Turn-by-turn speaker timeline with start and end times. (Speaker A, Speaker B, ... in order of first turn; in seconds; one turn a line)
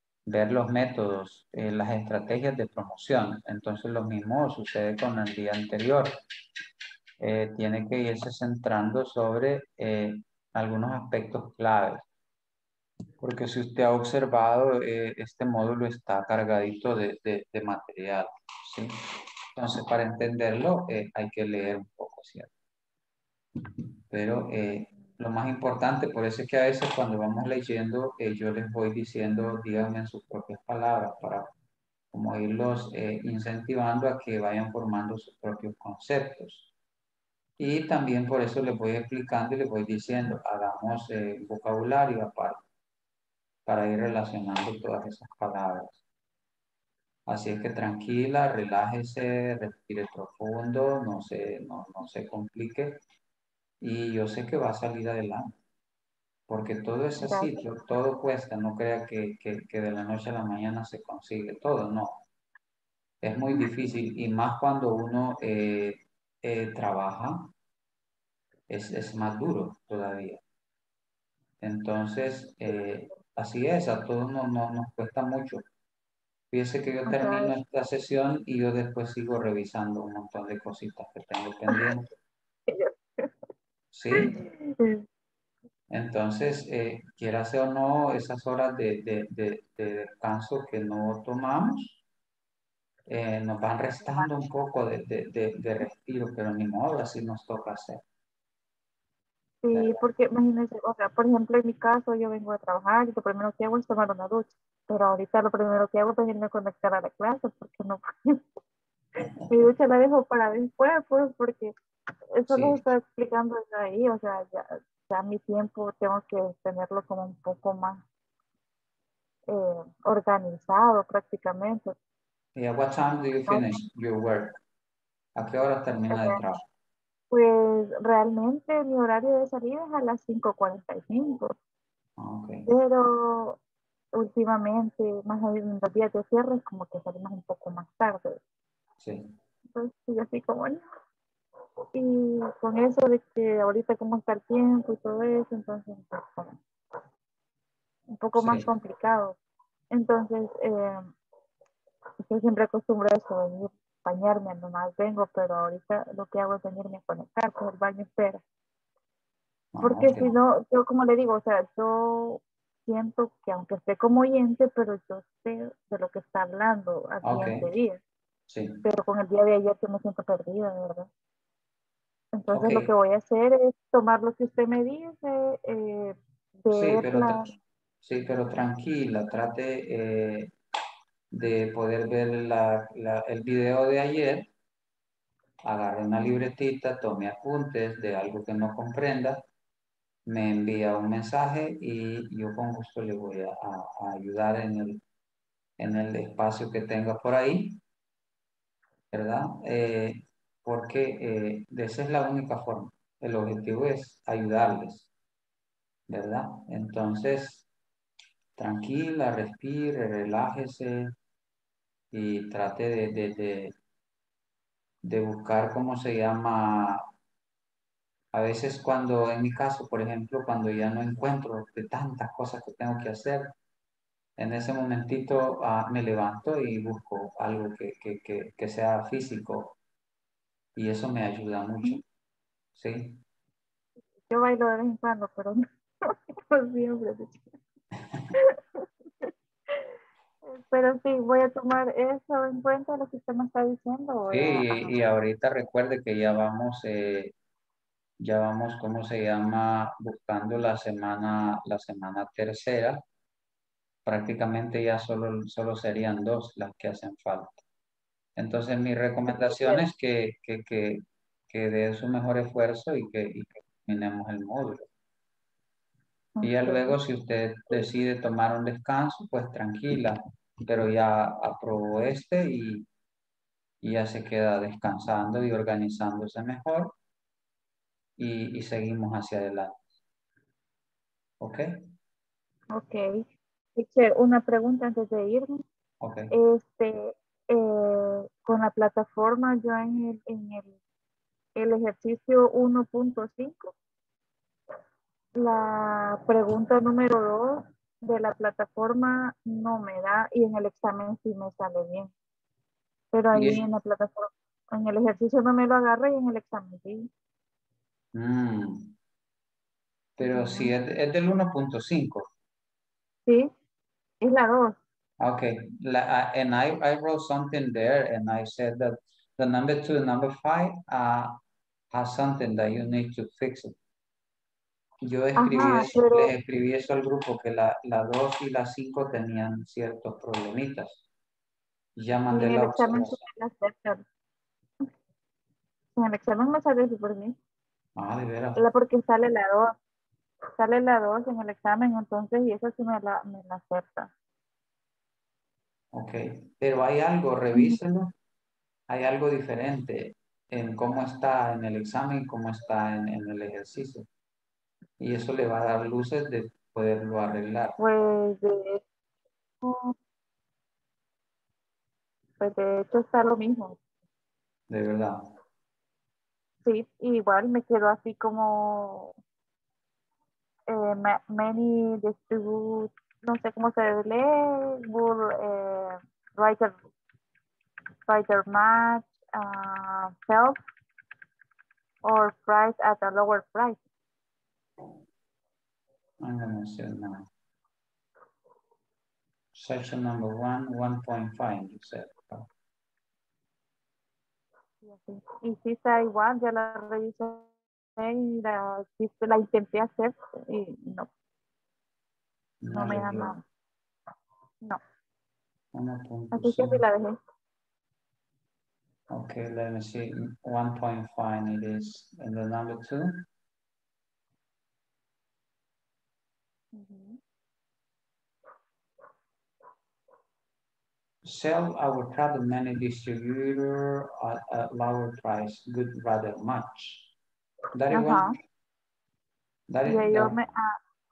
Speaker A: 0.3-6.2
Speaker A: 7.2-12.0
Speaker A: 13.2-18.9
Speaker A: 19.6-22.5
Speaker A: 24.1-31.5
Speaker A: 32.1-36.7
Speaker A: 37.6-42.6
Speaker A: 43.7-46.0
Speaker A: 47.3-53.0
Speaker A: 53.8-55.5
Speaker A: 56.5-62.2
Speaker B: 57.2-57.6
Speaker A: 63.2-67.5
Speaker A: 68.7-70.4
Speaker A: 71.6-75.6
Speaker A: 76.5-82.1
Speaker B: 77.1-77.5
Speaker B: 82.7-83.3
Speaker A: 83.9-84.4
Speaker B: 84.2-85.0
Speaker A: 85.9-92.0
Speaker A: 93.1-98.0
Speaker B: 94.1-94.3
Speaker B: 99.6-108.4
Speaker B: 109.5-111.7
Speaker B: 112.4-118.0
Speaker A: 112.5-112.8
Speaker B: 119.5-122.0
Speaker A: 122.6-124.6
Speaker B: 123.5-123.7
Speaker A: 125.4-126.6
Speaker B: 126.1-126.4
Speaker B: 127.3-131.5
Speaker A: 132.2-132.7
Speaker B: 132.7-133.6
Speaker B: 134.2-138.4
Speaker A: 139.0-139.3
Speaker B: 139.8-140.8
Speaker B: 141.9-146.6
Speaker B: 148.2-149.4
Speaker A: 148.4-148.7
Speaker B: 149.9-151.1
Speaker B: 152.3-158.4
Speaker A: 159.8-160.3
Speaker B: 159.8-168.0
Speaker A: 167.2-167.7
Speaker A: 168.5-168.8
Speaker B: 168.8-171.1
Speaker B: 172.4-177.6
Speaker A: 172.5-172.9
Speaker A: 176.7-177.5
Speaker A: 178.0-180.5
Speaker A: 181.3-184.5
Speaker A: 185.6-189.4
Speaker A: 190.3-195.0
Speaker A: 195.8-197.8
Speaker A: 199.1-205.1
Speaker A: 206.1-207.7
Speaker A: 208.6-211.1
Speaker A: 212.1-213.7
Speaker A: 215.0-217.0
Speaker A: 218.3-223.5
Speaker A: 224.4-229.8
Speaker A: 230.8-232.0
Speaker A: 232.8-233.2
Speaker B: 234.3-237.5
Speaker B: 238.3-239.8
Speaker B: 240.5-245.0
Speaker A: 244.3-247.3
Speaker A: 248.2-253.0
Speaker A: 254.1-257.6
Speaker A: 258.4-264.9
Speaker B: 259.3-259.9
Speaker B: 266.4-267.0
Speaker A: 266.4-272.9
Speaker A: 273.8-276.9
Speaker A: 278.2-279.8
Speaker A: 281.4-281.8
Speaker B: 282.7-283.2
Speaker B: 283.8-285.6
Speaker A: 286.0-286.3
Speaker B: 286.3-290.7
Speaker B: 291.6-293.7
Speaker B: 295.4-302.1
Speaker B: 303.1-307.0
Speaker A: 303.4-303.6
Speaker A: 308.1-308.9
Speaker A: 310.2-312.2
Speaker B: 310.2-310.7
Speaker B: 313.3-313.5
Speaker B: 314.2-314.7
Speaker A: 315.2-321.4
Speaker A: 321.9-323.8
Speaker A: 325.1-331.0
Speaker B: 325.4-326.3
Speaker A: 332.0-333.2
Speaker B: 332.3-334.0
Speaker B: 336.0-337.3
Speaker A: 338.0-338.6
Speaker B: 338.6-339.7
Speaker B: 340.6-344.1
Speaker A: 345.9-348.1
Speaker B: 347.5-347.8
Speaker A: 348.9-354.1
Speaker A: 355.0-357.8
Speaker B: 357.8-358.8
Speaker B: 359.6-359.9
Speaker B: 362.4-363.8
Speaker A: 364.7-365.2
Speaker B: 366.6-369.1
Speaker B: 370.7-376.8
Speaker B: 378.1-380.6
Speaker B: 382.1-383.8
Speaker A: 386.2-387.3
Speaker A: 389.5-392.5
Speaker B: 394.8-397.5
Speaker B: 398.0-401.1
Speaker A: 402.6-403.4
Speaker B: 402.7-403.4
Speaker A: 405.8-406.8
Speaker B: 406.3-407.2
Speaker A: 409.1-413.3
Speaker B: 416.7-417.2
Speaker A: 421.2-427.1
Speaker A: 427.8-428.2
Speaker B: 427.9-428.3
Speaker A: 429.7-430.4
Speaker B: 429.9-430.8